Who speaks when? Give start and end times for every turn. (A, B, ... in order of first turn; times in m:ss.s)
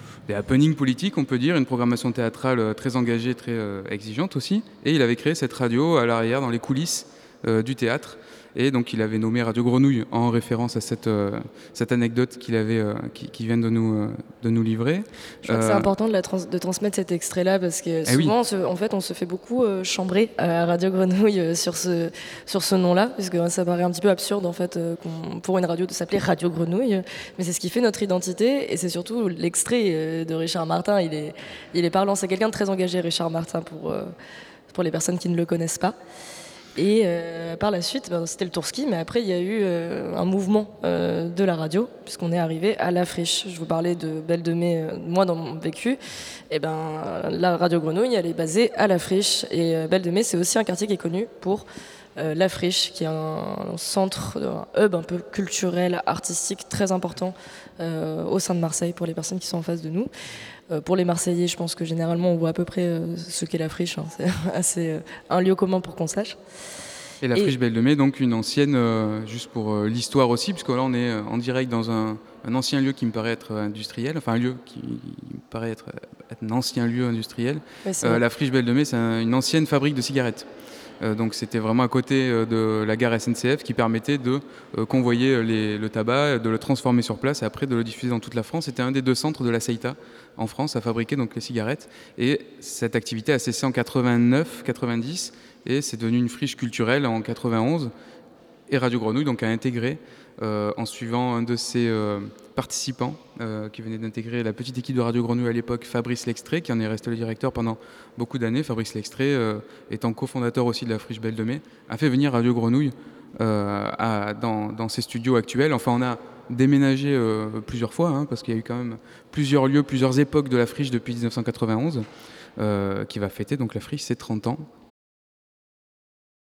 0:00.3-0:15.9 A
0:15.4-0:34.1 B
0:18.1-0:18.3 A
0:34.7-0:36.0 B
0:36.8-0:46.0 B
0:46.5-0:51.6 B
0:52.2-1:00.1 B
1:00.7-1:06.4 B
1:07.2-1:20.5 A
1:17.8-1:18.2 B
1:21.0-1:37.9 A
1:38.7-2:02.0 A
2:02.6-2:04.7 A